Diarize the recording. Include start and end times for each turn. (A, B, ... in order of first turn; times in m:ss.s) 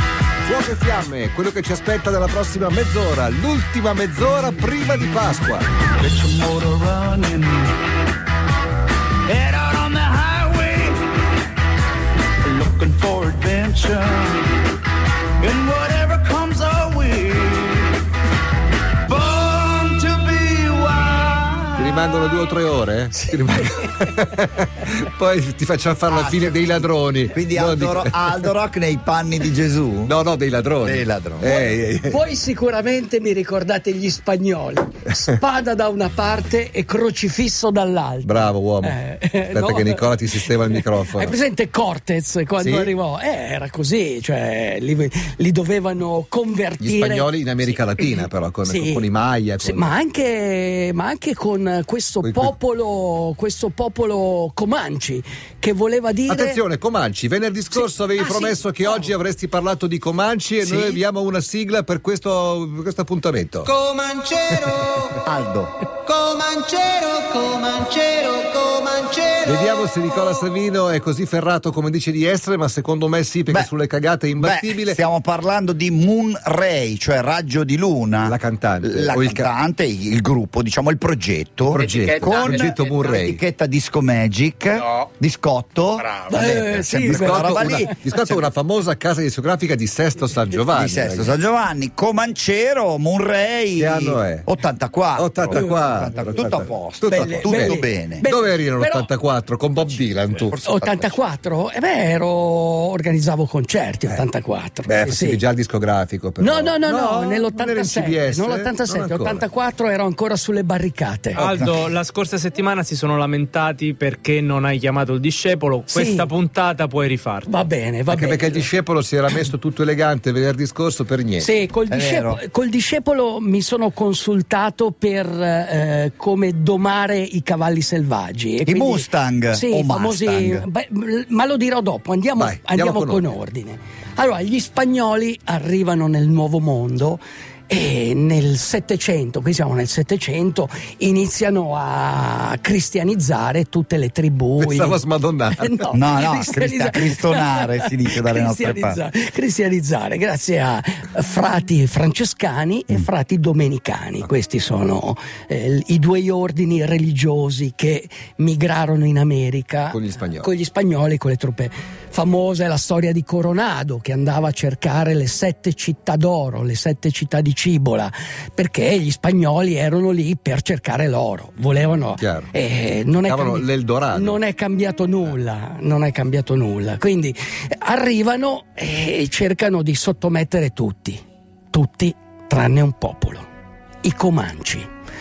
0:00.4-0:05.7 A
0:06.0-0:07.8 B
0:09.2-0:11.1 B
0:12.4-0:14.7 B
0:15.4-0:18.0 B
0:19.0-0:21.8 B
0:21.7-0:28.4 A
0:26.1-0:30.1 C
0:30.0-0:32.2 A
0:30.8-0:31.5 C
0:31.5-0:47.3 D
0:38.2-0:39.0 A
0:39.5-0:41.4 A
0:42.6-0:42.9 A
0:46.8-0:49.8 A
0:48.6-0:49.1 D
0:49.6-0:56.6 D
0:52.2-0:52.5 A
0:56.3-1:03.7 A
0:57.7-0:59.1 D
1:03.6-1:05.1 E
1:05.2-1:05.8 C
1:05.8-1:09.8 E
1:09.4-1:15.0 A
1:14.4-1:28.4 C
1:18.2-1:19.5 A
1:21.7-1:23.4 A
1:21.8-1:23.0 E
1:26.0-1:26.3 E
1:26.3-1:27.9 D
1:26.7-1:31.4 A
1:30.7-1:38.2 C
1:33.8-1:34.5 A
1:35.2-1:40.6 A
1:37.1-1:39.1 D
1:40.4-1:41.2 C
1:40.6-1:45.4 D
1:44.9-1:49.4 A
1:46.4-1:51.4 D
1:51.3-1:57.5 F
1:51.4-1:51.8 C
1:55.9-1:56.3 D
1:57.5-1:58.7 D
1:58.1-2:01.5 A
2:01.4-2:25.0 D
2:01.9-2:02.4 C
2:08.6-2:10.6 C
2:12.4-2:13.3 A
2:24.6-2:25.8 A
2:25.6-3:03.4 D
2:25.9-2:29.0 C
2:39.9-2:40.5 A
2:52.2-2:52.5 A
2:53.2-2:54.4 A
3:04.0-3:04.9 D